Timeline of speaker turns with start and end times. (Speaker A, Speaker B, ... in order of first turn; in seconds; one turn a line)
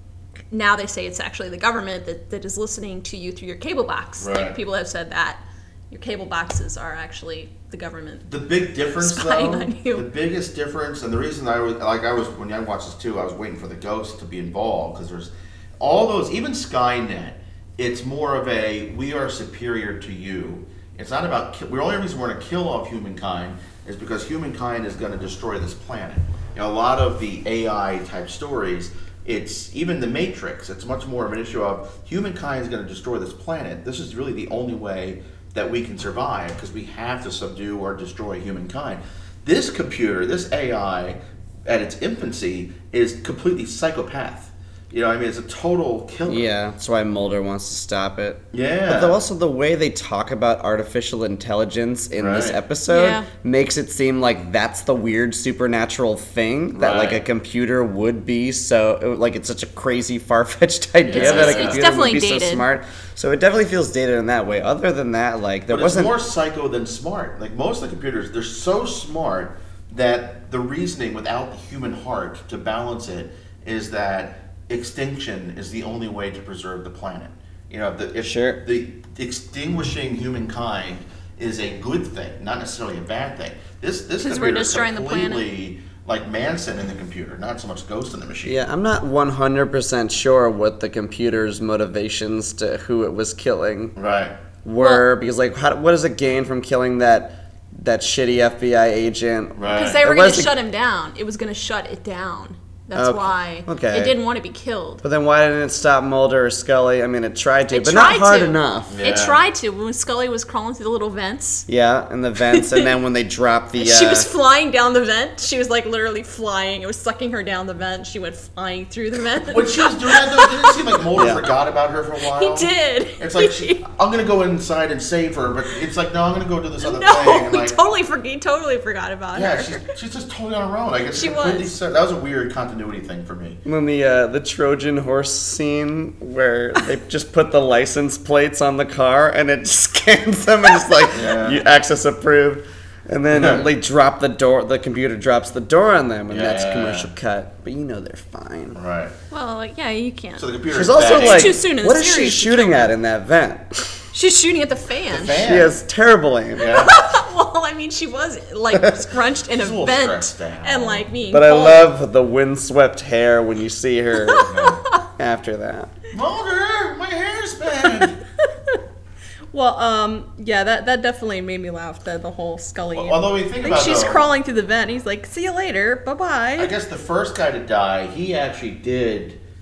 Speaker A: 0.5-8.3
Speaker B: 4.2-4.6
Speaker B: 8.3-46.5
Speaker A: 9.0-10.0
Speaker C: 46.3-66.1
Speaker B: 48.5-49.2
Speaker B: 52.1-52.6
Speaker A: 52.9-53.3
Speaker B: 56.8-57.2
Speaker A: 61.1-62.6
Speaker B: 61.1-61.8
Speaker B: 65.7-88.6
Speaker C: 78.2-78.6
Speaker A: 84.2-85.4
Speaker C: 88.4-94.0
Speaker B: 94.0-94.3
Speaker C: 94.6-100.5
Speaker A: 94.8-95.0
Speaker B: 99.6-100.0
Speaker A: 99.7-105.0
Speaker C: 103.0-104.2
Speaker C: 105.0-109.0
Speaker A: 107.7-111.7
Speaker B: 108.9-109.4
Speaker C: 111.7-114.3
Speaker A: 112.5-112.9
Speaker A: 113.7-121.0
Speaker B: 119.5-127.8
Speaker C: 121.1-121.4
Speaker A: 122.3-123.8
Speaker A: 126.8-129.8
Speaker B: 129.3-133.6
Speaker A: 131.1-131.7
Speaker C: 133.6-148.8
Speaker B: 141.1-141.6
Speaker B: 143.3-143.6
Speaker B: 146.3-147.1
Speaker B: 148.7-149.1
Speaker A: 149.3-150.5
Speaker B: 150.4-151.6
Speaker C: 150.7-154.1
Speaker A: 151.0-152.9
Speaker A: 154.1-155.4
Speaker B: 155.1-155.7
Speaker C: 155.4-156.7
Speaker B: 156.6-156.9
Speaker A: 156.6-161.9
Speaker B: 159.5-161.1
Speaker C: 161.3-164.5
Speaker A: 164.2-165.0
Speaker B: 164.4-164.8
Speaker C: 165.1-165.9
Speaker B: 166.1-168.2
Speaker A: 169.5-176.7
Speaker B: 172.9-174.3
Speaker B: 176.6-179.4